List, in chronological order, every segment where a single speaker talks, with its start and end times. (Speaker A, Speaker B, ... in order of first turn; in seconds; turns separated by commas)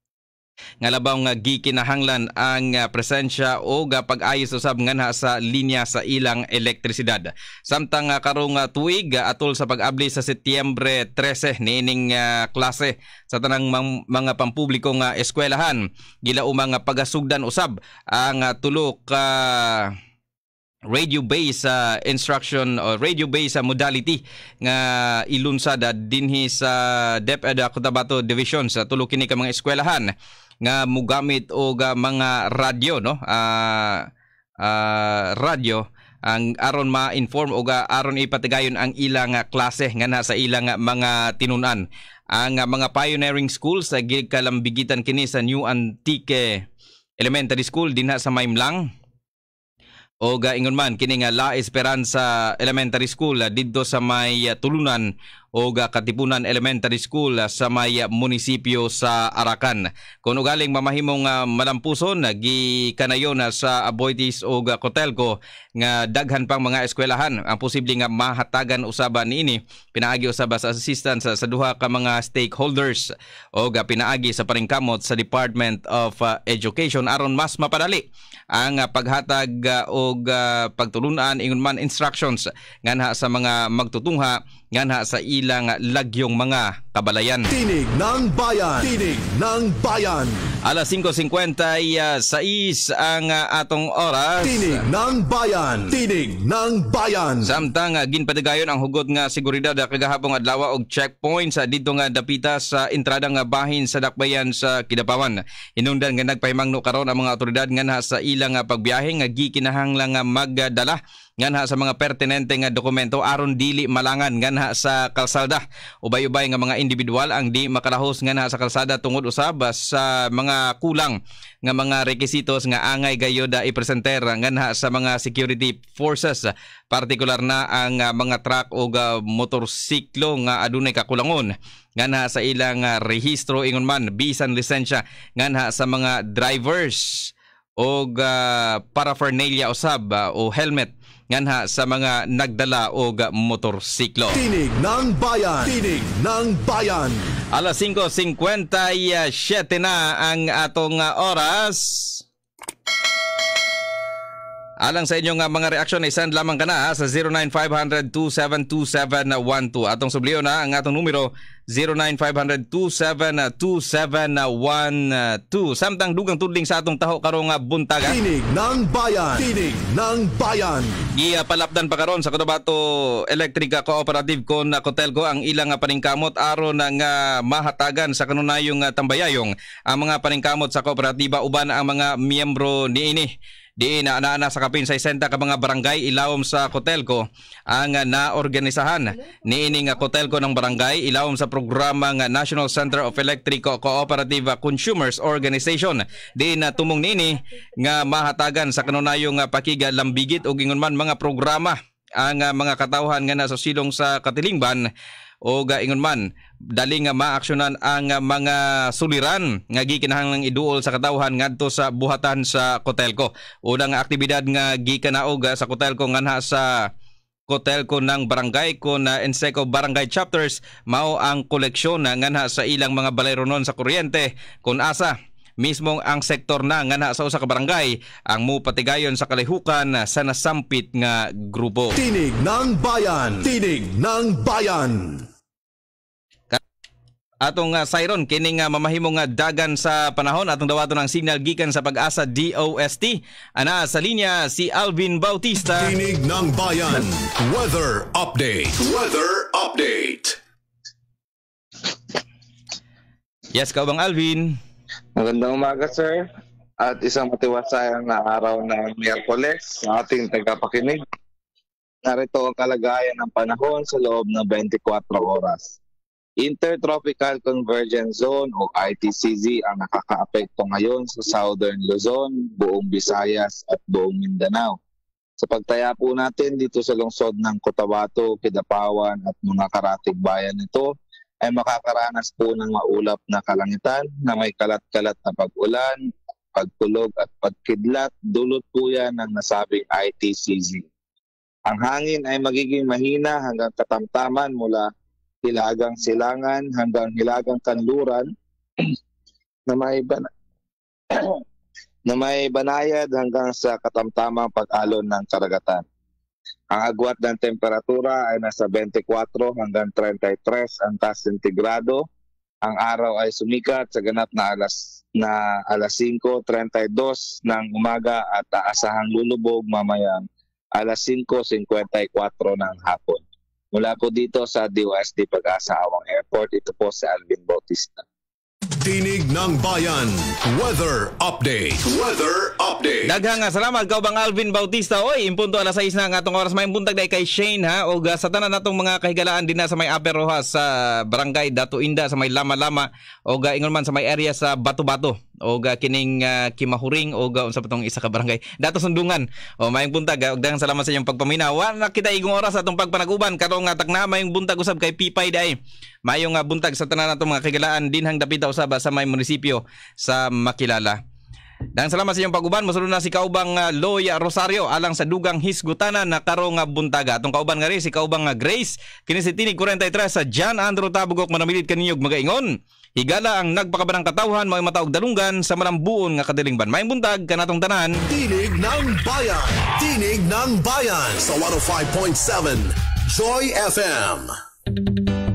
Speaker A: 0.8-19.9, Speaker A: 20.9-30.1, Speaker A: 30.6-34.1, Speaker A: 34.6-46.7, Speaker A: 47.2-48.9, Speaker A: 50.2-87.5, Speaker B: 87.5-90.5, Speaker A: 90.7-94.8, Speaker B: 94.4-97.6, Speaker A: 97.5-144.4, Speaker B: 144.3-147.3, Speaker A: 147.5-152.2, Speaker A: 154.8-168.2, Speaker B: 168.0-171.0, Speaker A: 171.2-204.9, Speaker A: 205.4-216.7, Speaker A: 217.5-231.9, Speaker B: 232.0-235.2, Speaker A: 237.5-245.9, Speaker B: 245.8-247.3, Speaker B: 247.9-250.1, Speaker A: 253.5-254.6, Speaker C: 255.2-256.3, Speaker C: 256.8-261.0, Speaker C: 262.1-265.8, Speaker C: 266.4-274.8, Speaker C: 275.4-290.9, Speaker C: 291.7-294.9, Speaker C: 295.4-298.9, Speaker C: 299.7-300.3, Speaker C: 301.1-301.4, Speaker C: 302.1-305.8, Speaker C: 306.7-312.1, Speaker C: 312.6-328.0, Speaker B: 328.8-332.9, Speaker A: 333.1-355.6, Speaker A: 356.1-361.0, Speaker A: 361.8-378.0, Speaker B: 378.1-384.3